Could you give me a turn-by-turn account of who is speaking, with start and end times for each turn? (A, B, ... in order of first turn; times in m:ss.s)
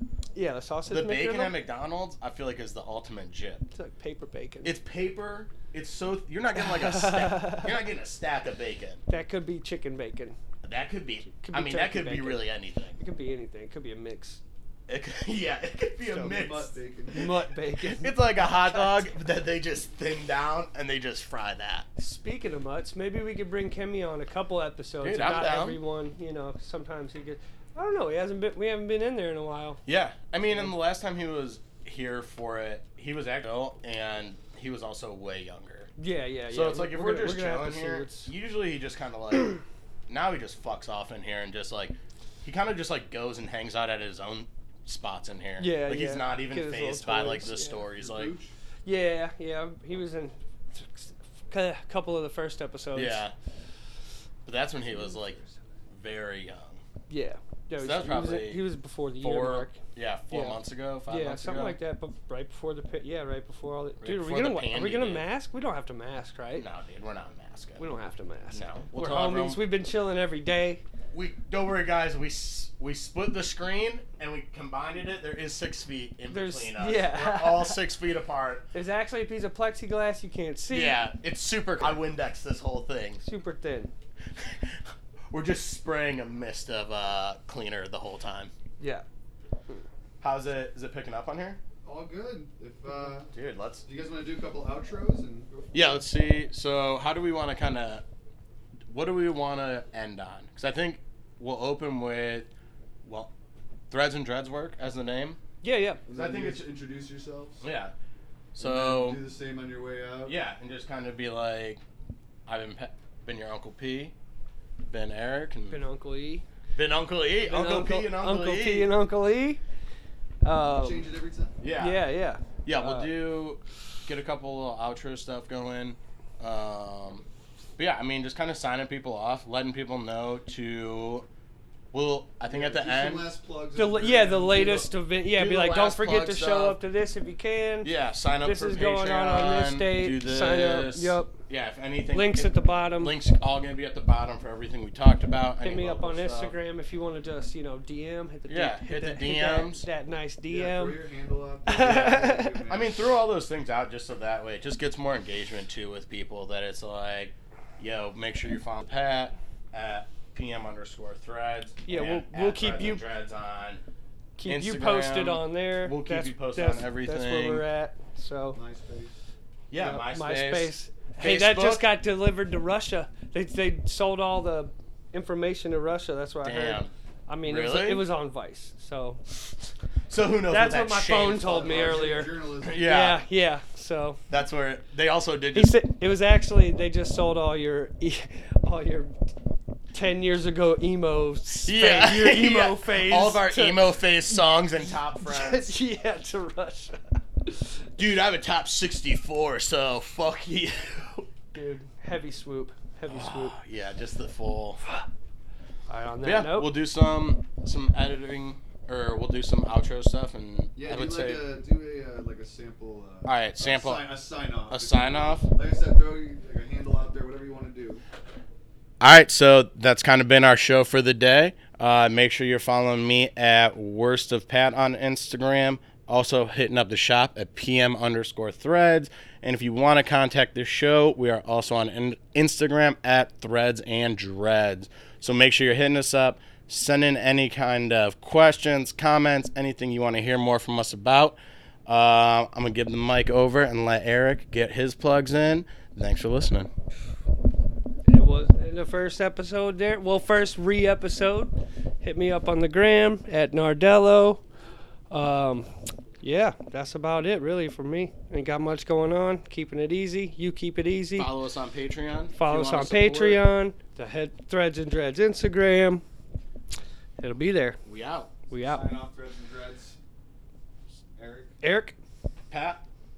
0:00.3-0:01.6 A
0:00.8-0:03.6 B
0:03.7-0:04.7 A
0:04.6-0:09.0 B
0:06.6-0:07.7 A
0:09.1-0:10.4 A
0:10.6-0:13.0 B
0:11.4-0:12.4 A
0:13.0-0:14.4 A
0:14.9-0:16.7 B
0:16.2-0:17.3 C
0:17.1-0:19.2 A
0:17.8-0:21.8 B
0:22.0-0:29.8 A
0:25.0-0:25.8 B
0:29.8-0:35.9 B
0:36.0-0:38.3 A
0:36.5-0:48.3 B
0:45.6-0:47.8 A
0:48.0-0:48.5 C
0:48.8-0:53.2 A
0:52.9-0:53.3 B
0:54.4-0:55.4 B
0:54.9-0:55.5 A
0:55.9-0:56.8 B
0:57.1-0:59.8 A
0:57.8-0:58.7 B
0:59.2-1:01.8 B
1:00.3-1:06.6 A
1:04.0-1:05.3 B
1:06.5-1:07.9 B
1:07.8-1:10.8 A
1:08.5-1:09.6 B
1:11.1-1:18.6 B
1:16.3-1:17.8 A
1:18.7-1:21.0 A
1:20.7-1:23.2 B
1:23.2-1:23.9 A
1:24.4-1:24.8 B
1:25.3-1:28.5 B
1:28.8-1:29.0 A
1:30.2-1:31.6 B
1:31.8-1:33.3 C
1:33.3-1:33.8 B
1:33.8-1:36.0 C
1:35.7-1:38.0 B
1:38.9-1:42.5 B
1:43.0-1:43.3 B
1:43.9-1:45.4 B
1:45.6-1:46.0 A
1:46.0-1:47.6 C
1:46.1-1:46.6 B
1:47.6-1:47.9 B
1:48.6-1:49.2 B
1:48.6-1:50.3 C
1:50.2-1:51.8 B
1:52.5-1:54.1 B
1:54.9-1:55.8 B
1:55.7-1:56.4 A
1:56.7-1:58.9 B
1:57.4-1:59.6 A
2:00.4-2:01.1 A
2:00.7-2:01.6 C
2:01.6-2:02.0 B
2:01.8-2:03.1 A
2:02.6-2:07.2 B
2:07.8-2:11.2 B
2:11.9-2:13.3 B
2:12.5-2:14.9 C
2:13.8-2:21.3 A
2:15.3-2:16.8 B
2:17.8-2:26.6 B
2:22.1-2:23.2 A
2:25.6-2:31.0 A
2:28.5-2:29.9 B
2:30.5-2:33.0 C
2:31.7-2:32.6 A
2:31.7-2:43.8 B
2:41.8-2:43.0 A
2:44.4-2:48.6 A
2:44.4-2:47.6 B
2:48.5-2:49.1 C
2:49.7-2:51.9 B
2:49.8-2:50.0 C
2:50.1-2:59.2 A
2:56.4-2:56.9 B
2:57.4-2:58.0 B
3:00.1-3:01.7 B
3:00.5-3:04.2 A
3:01.4-3:02.8 C
3:02.6-3:03.2 B
3:04.3-3:05.8 B
3:05.5-3:09.1 A
3:09.9-3:14.6 A
3:11.6-3:15.7 B
3:15.2-3:17.6 A
3:18.0-3:21.3 B
3:21.5-3:23.6 A
3:23.1-3:24.8 B
3:25.9-3:26.7 A
3:26.2-3:31.4 B
3:30.8-3:38.0 C
3:33.2-3:34.1 B
3:34.7-3:35.5 B
3:39.0-4:06.7 B
4:08.0-4:14.4 A
4:15.1-4:15.7 A
4:16.2-4:21.3 A
4:21.1-4:23.4 B
4:22.3-4:26.0 A
4:27.2-4:27.8 A
4:27.8-4:28.4 B
4:28.5-4:28.9 A
4:28.6-4:30.0 C
4:31.2-4:31.5 C
4:31.6-4:32.0 A
4:32.5-4:32.8 B